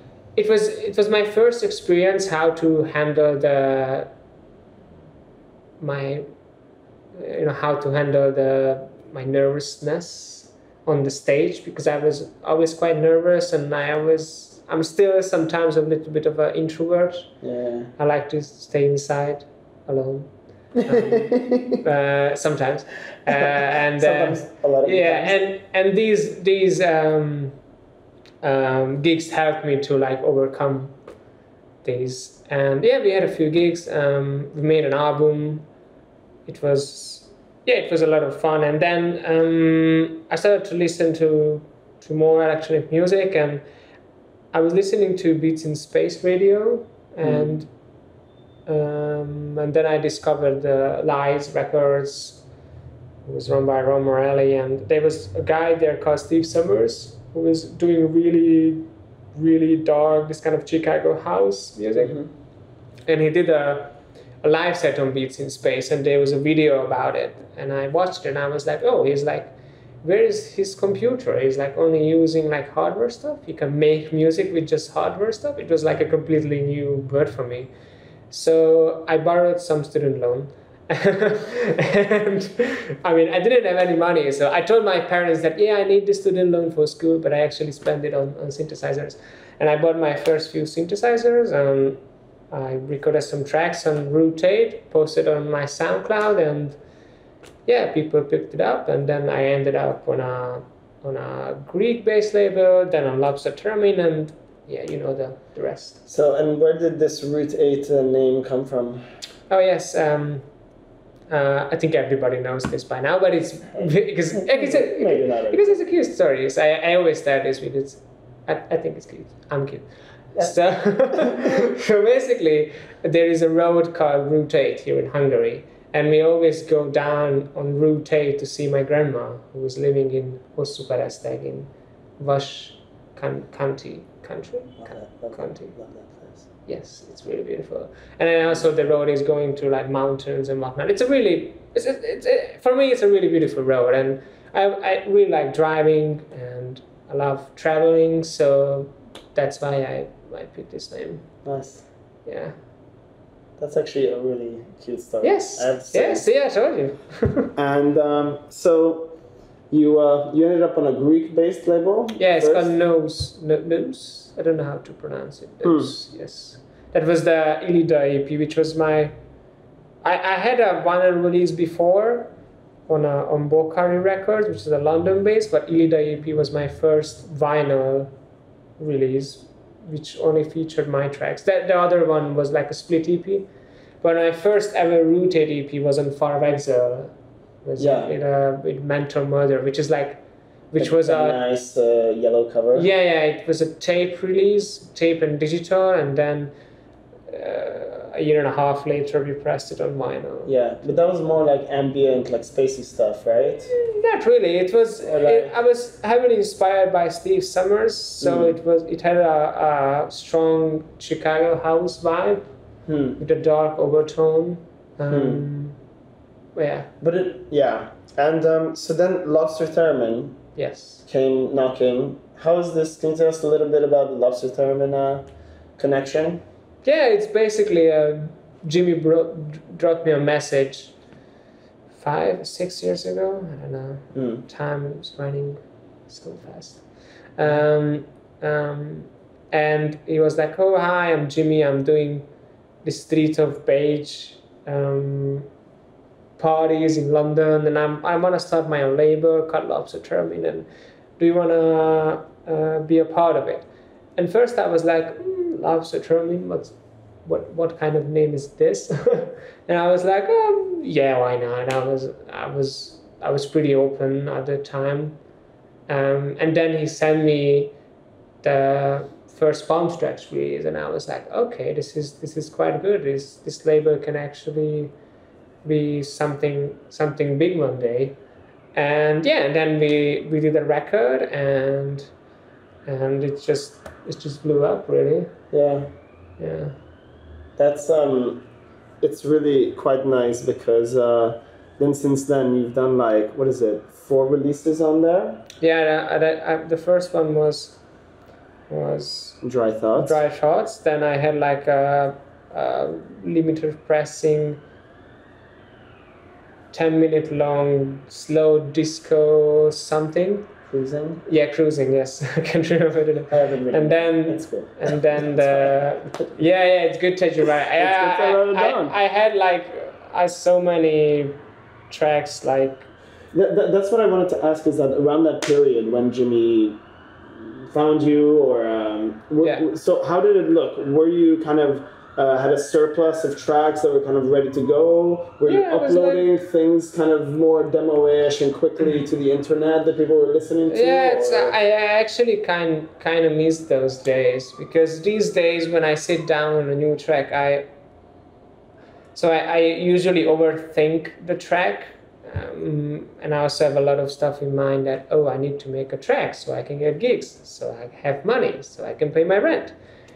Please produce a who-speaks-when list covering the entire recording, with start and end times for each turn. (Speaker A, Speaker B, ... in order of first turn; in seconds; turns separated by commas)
Speaker A: 0.3-4.1, Speaker A: 5.8-6.2, Speaker A: 7.2-17.3, Speaker B: 17.4-17.9, Speaker A: 18.0-27.6, Speaker B: 20.8-21.8, Speaker B: 23.3-25.4, Speaker A: 28.4-30.9, Speaker A: 31.8-35.6, Speaker A: 36.5-43.6, Speaker A: 44.5-47.7, Speaker B: 47.2-47.5, Speaker A: 48.7-52.4, Speaker A: 53.2-62.1, Speaker B: 61.9-62.3, Speaker A: 63.1-77.7, Speaker A: 78.3-92.0, Speaker A: 92.5-96.8, Speaker A: 97.7-106.0, Speaker B: 106.1-109.1, Speaker A: 109.5-110.4, Speaker A: 111.3-135.7, Speaker B: 113.8-115.8, Speaker B: 121.1-121.7, Speaker B: 134.8-136.5, Speaker A: 136.7-151.3, Speaker B: 151.4-151.8, Speaker A: 152.2-152.5, Speaker B: 153.6-156.2, Speaker A: 155.2-157.5, Speaker B: 157.6-159.2, Speaker B: 159.7-162.7, Speaker A: 162.2-169.1, Speaker B: 165.6-165.9, Speaker A: 170.0-172.3, Speaker A: 172.9-178.1, Speaker A: 178.8-183.5, Speaker A: 184.0-190.2, Speaker B: 187.8-188.1, Speaker A: 190.7-191.4, Speaker B: 190.8-192.9, Speaker A: 192.7-196.5, Speaker A: 197.3-200.5, Speaker B: 200.4-203.7, Speaker A: 203.7-212.4, Speaker B: 205.0-205.5, Speaker B: 208.2-208.6, Speaker B: 212.8-213.2, Speaker A: 213.2-215.8, Speaker B: 215.1-215.4, Speaker A: 216.5-216.9, Speaker B: 217.0-220.4, Speaker A: 220.6-221.0, Speaker B: 221.0-226.4, Speaker A: 226.8-230.9, Speaker A: 231.9-236.8, Speaker B: 234.1-234.4, Speaker A: 237.4-242.3, Speaker A: 242.8-245.5, Speaker A: 246.4-250.7, Speaker A: 251.2-253.6, Speaker A: 254.2-265.2, Speaker A: 265.9-267.7, Speaker A: 268.4-274.9, Speaker A: 275.6-278.2, Speaker A: 278.7-282.1, Speaker A: 282.9-285.3, Speaker B: 285.5-285.9, Speaker A: 286.4-286.7, Speaker B: 287.6-288.4, Speaker B: 289.0-295.4, Speaker A: 295.6-297.8, Speaker A: 298.7-299.4, Speaker B: 299.4-300.2, Speaker A: 299.9-304.6, Speaker A: 306.7-310.5, Speaker B: 310.7-311.2, Speaker A: 311.2-321.4, Speaker B: 313.3-316.1, Speaker B: 317.8-318.9, Speaker A: 321.9-322.9, Speaker B: 323.3-326.8, Speaker B: 327.4-341.6, Speaker A: 335.4-336.3, Speaker A: 340.7-347.6, Speaker A: 349.1-359.7